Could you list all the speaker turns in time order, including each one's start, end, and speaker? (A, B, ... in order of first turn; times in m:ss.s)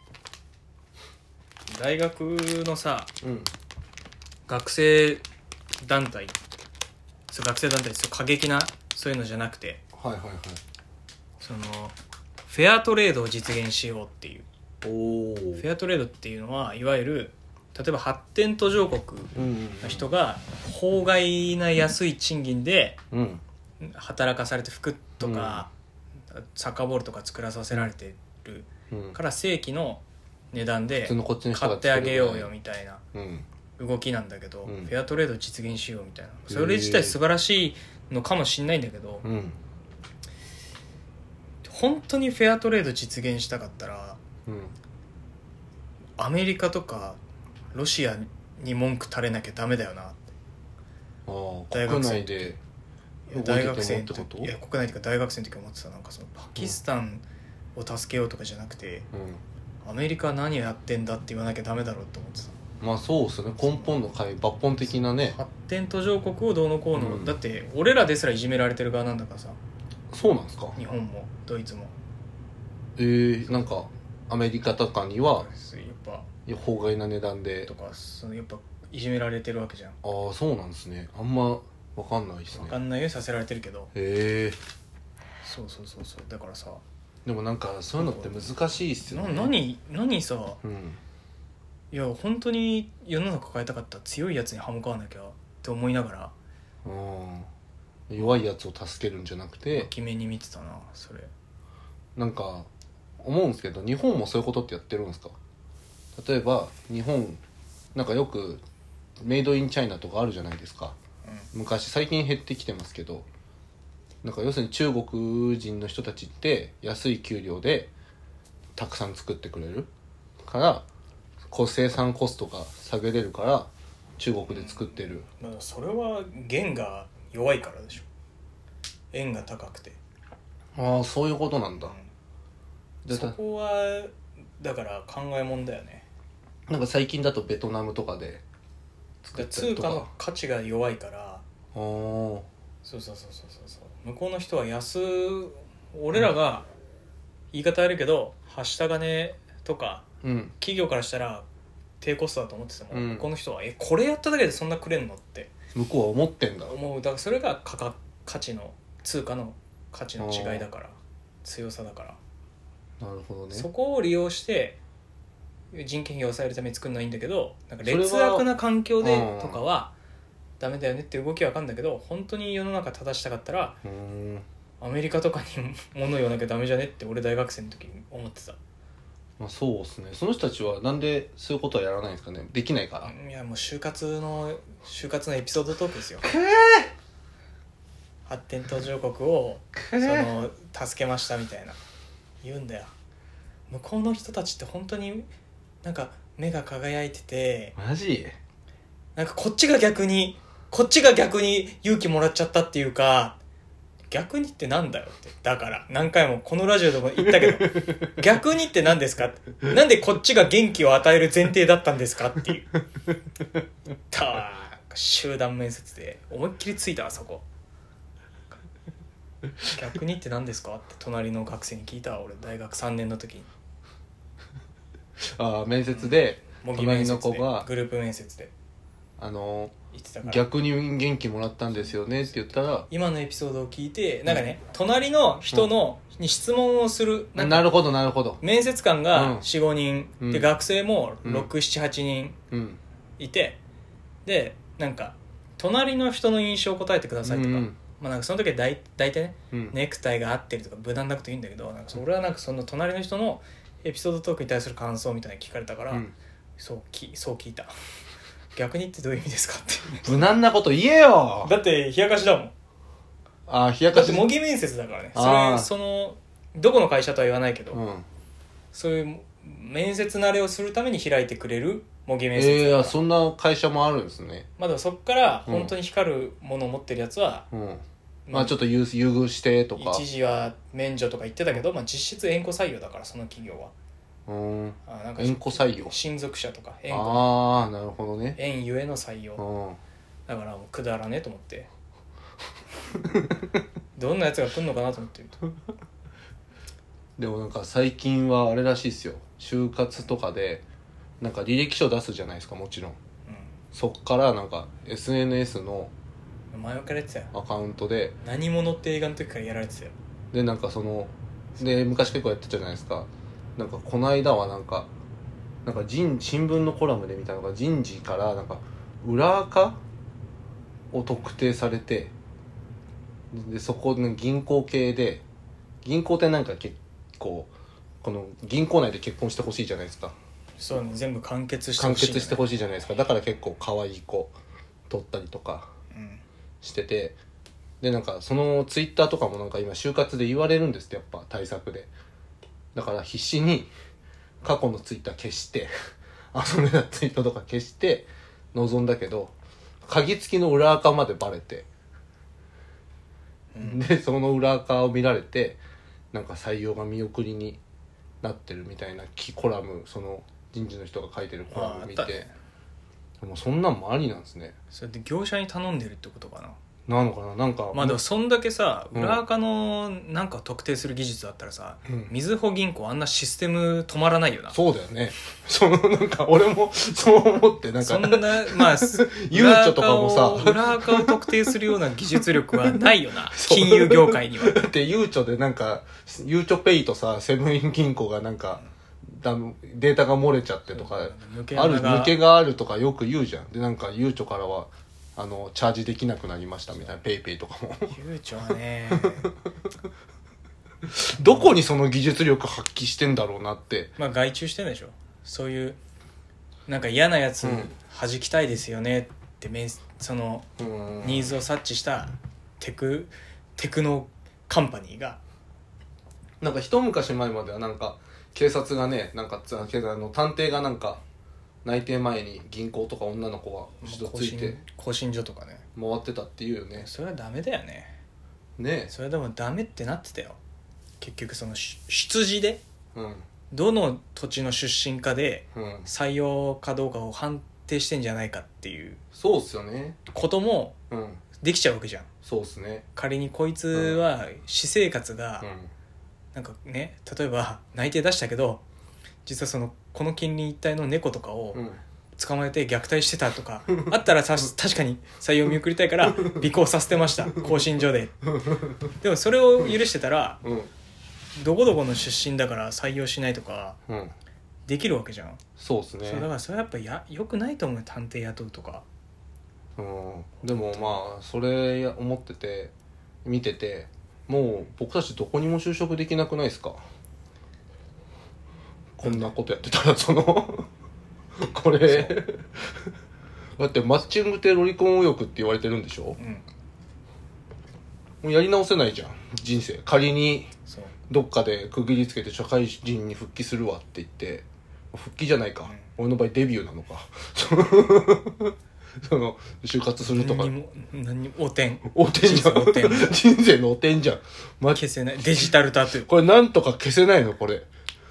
0:01.7-0:03.1 A
0:03.2-0:03.5 B
0:04.5-0:05.2 A
0:05.8-0:06.4 A
0:07.3-0:09.8 A
0:09.9-0:10.6 B
0:11.4-0:12.0 A
0:12.5-0:14.5 A
0:14.8-0:15.6 B
0:15.6-0:23.0 A
0:19.4-0:20.1 B
0:23.1-0:23.4 B
0:23.8-0:25.7 A
0:25.2-0:25.7 B
0:26.3-0:33.0 A
0:28.9-0:29.2 B
0:31.0-0:32.5 B
0:33.1-0:33.4 B
0:33.8-0:39.2 A
0:34.6-0:34.9 B
0:36.5-0:37.2 B
0:39.2-0:39.6 B
0:41.6-0:44.2 A
0:44.5-0:44.7 B
0:46.2-0:47.2 A
0:47.7-0:50.3 A
0:51.3-0:52.6 B
0:51.7-0:52.6 A
0:53.3-0:59.1 A
0:53.3-0:54.5 B
0:59.1-0:59.4 B
0:59.8-1:02.6 A
1:02.8-1:05.4 B
1:03.6-1:04.0 A
1:05.2-1:09.6 A
1:06.9-1:07.4 B
1:10.1-1:10.8 B
1:10.8-1:12.0 A
1:13.0-1:15.5 B
1:15.3-1:16.3 A
1:16.5-1:17.7 B
1:17.7-1:20.0 A
1:20.0-1:22.8 B
1:22.5-1:23.9 A
1:23.9-1:24.6 B
1:25.4-1:26.8 A
1:27.3-1:29.5 B
1:28.0-1:28.4 A
1:29.1-1:30.6 A
1:30.6-1:31.0 B
1:31.9-1:36.3 A
1:36.8-1:37.5 B
1:38.1-1:39.9 B
1:38.2-1:38.5 A
1:39.7-1:41.3 A
1:42.2-1:42.7 B
1:43.2-1:45.4 B
1:46.2-1:47.4 B
1:47.9-1:48.6 B
1:49.2-1:51.0 B
1:51.5-1:53.3 B
1:54.2-1:57.9 B
1:58.8-1:59.9 B
2:00.5-2:00.8 B
2:01.5-2:05.2 B
2:04.5-2:08.1 A
2:09.1-2:10.0 A
2:10.8-2:11.9 B
2:11.8-2:12.1 A
2:13.0-2:13.4 B
2:13.1-2:16.0 A
2:16.7-2:18.4 B
2:19.2-2:20.1 B
2:19.3-2:21.4 A
2:21.7-2:22.5 B
2:22.8-2:26.7 A
2:27.5-2:30.0 A
2:30.2-2:30.5 B
2:30.6-2:31.5 A
2:32.0-2:35.5 A
2:32.9-2:33.3 B
2:35.8-2:36.8 B
2:36.7-2:42.2 A
2:40.2-2:40.6 B
2:43.0-2:43.7 B
2:43.5-2:44.8 A
2:45.7-2:49.9 A
2:47.8-2:48.5 B
2:49.0-2:49.6 B
2:50.6-2:53.8 A
2:53.8-2:54.5 B
2:54.8-2:58.6 A
2:59.4-3:03.1 B
3:03.0-3:06.2 A
3:06.2-3:06.9 B
3:08.3-3:11.8 A
3:09.8-3:10.3 B
3:12.4-3:12.9 A
3:13.7-3:15.3 A
3:15.8-3:17.8 A
3:17.8-3:18.4 B
3:19.2-3:23.4 A
3:24.1-3:32.7 A
3:34.1-3:37.4 A
3:39.6-3:43.5 A
3:45.4-3:47.7 B
3:45.9-3:48.5 A
3:49.2-3:49.7 B
3:49.9-3:50.4 A
3:50.2-3:52.9 B
3:51.7-3:57.7 A
3:57.4-3:58.4 B
3:58.4-4:02.4 A
3:59.1-3:59.5 B
4:00.2-4:00.5 B
4:01.2-4:01.5 B
4:02.5-4:02.8 B
4:03.2-4:03.6 A
4:04.2-4:16.0 A
4:07.2-4:07.8 B
4:16.6-4:17.7 A
4:18.6-4:20.2 A
4:20.0-4:21.5 B
4:21.4-4:22.5 A
4:23.5-4:24.3 B
4:23.9-4:27.8 A
4:25.1-4:25.7 B
4:27.7-4:28.1 B
4:28.7-4:33.0 A
4:32.4-4:34.5 B
4:34.6-4:37.5 A
4:35.5-4:35.7 B
4:37.5-4:40.0 B
4:38.3-4:38.6 A
4:39.8-4:43.7 A
4:44.3-4:46.0 B
4:44.9-4:47.4 A
4:46.9-4:48.4 B
4:48.4-4:49.4 A
4:49.4-4:49.8 B
4:50.3-4:51.7 A
4:54.0-4:55.4 A
4:57.2-5:00.6 B
5:01.2-5:03.0 B
5:03.3-5:03.6 A
5:03.7-5:05.9 B
5:06.5-5:07.3 A
5:07.3-5:08.2 B
5:08.2-5:09.9 A
5:10.3-5:14.9 B
5:15.6-5:19.8 B
5:20.9-5:22.1 B
5:23.3-5:25.2 B
5:25.8-5:27.5 B
5:28.0-5:30.1 B
5:30.6-5:32.4 A
5:31.8-5:34.3 B
5:34.9-5:35.7 B
5:35.9-5:36.2 A
5:36.6-5:37.2 B
5:37.8-5:41.9 B
5:42.8-5:43.7 B
5:44.4-5:45.7 B
5:46.3-5:49.3 B
5:49.8-5:51.7 B
5:53.5-5:53.8 A
5:53.6-5:55.6 B
5:56.1-5:57.6 B
5:58.2-6:02.3 B
6:01.5-6:02.3 A
6:03.2-6:04.5 B
6:04.7-6:06.6 A
6:06.9-6:08.0 B
6:07.7-6:14.6 A
6:08.9-6:09.2 B
6:14.5-6:21.1 B
6:17.8-6:24.6 A
6:23.3-6:28.6 B
6:29.1-6:38.0 B
6:30.7-6:32.2 A
6:37.9-6:39.3 A
6:39.0-6:39.3 B
6:40.9-6:43.9 B
6:41.2-6:41.6 A
6:44.0-6:45.8 A
6:46.7-6:50.5 A
6:47.4-6:47.7 B
6:50.6-6:51.4 B
6:51.0-6:55.2 A
6:56.4-7:01.0 B
7:01.6-7:04.6 B
7:03.8-7:05.6 A
7:05.8-7:06.9 B
7:06.8-7:08.0 A
7:08.6-7:08.9 B
7:08.9-7:10.4 A
7:11.0-7:12.6 A
7:13.0-7:13.2 B
7:13.5-7:19.0 A
7:15.5-7:15.9 B
7:19.1-7:20.0 B
7:20.1-7:20.8 A
7:20.9-7:21.2 B
7:21.4-7:22.1 A
7:22.2-7:22.9 B
7:23.0-7:25.5 A
7:23.7-7:24.0 B
7:25.4-7:25.7 B
7:26.3-7:28.6 A
7:29.2-7:31.6 A
7:31.5-7:31.8 B
7:32.2-7:38.2 A
7:36.2-7:36.5 B
7:38.3-7:38.8 B
7:39.0-7:40.4 A
7:40.4-7:40.7 B
7:41.4-7:43.8 A
7:43.9-7:44.1 B
7:44.7-7:45.4 A
7:45.6-7:46.3 B
7:46.0-7:48.8 A
7:49.8-7:52.7 B
7:50.4-7:51.0 A
7:53.2-7:56.8 B
7:59.0-8:00.7 B
8:01.4-8:02.8 B
8:01.9-8:02.2 A
8:03.6-8:06.2 B
8:06.2-8:06.5 A
8:08.2-8:10.5 B
8:10.7-8:11.0 A
8:11.1-8:20.5 B
8:20.0-8:23.2 A
8:21.9-8:24.8 B
8:24.7-8:26.1 A
8:26.0-8:27.7 B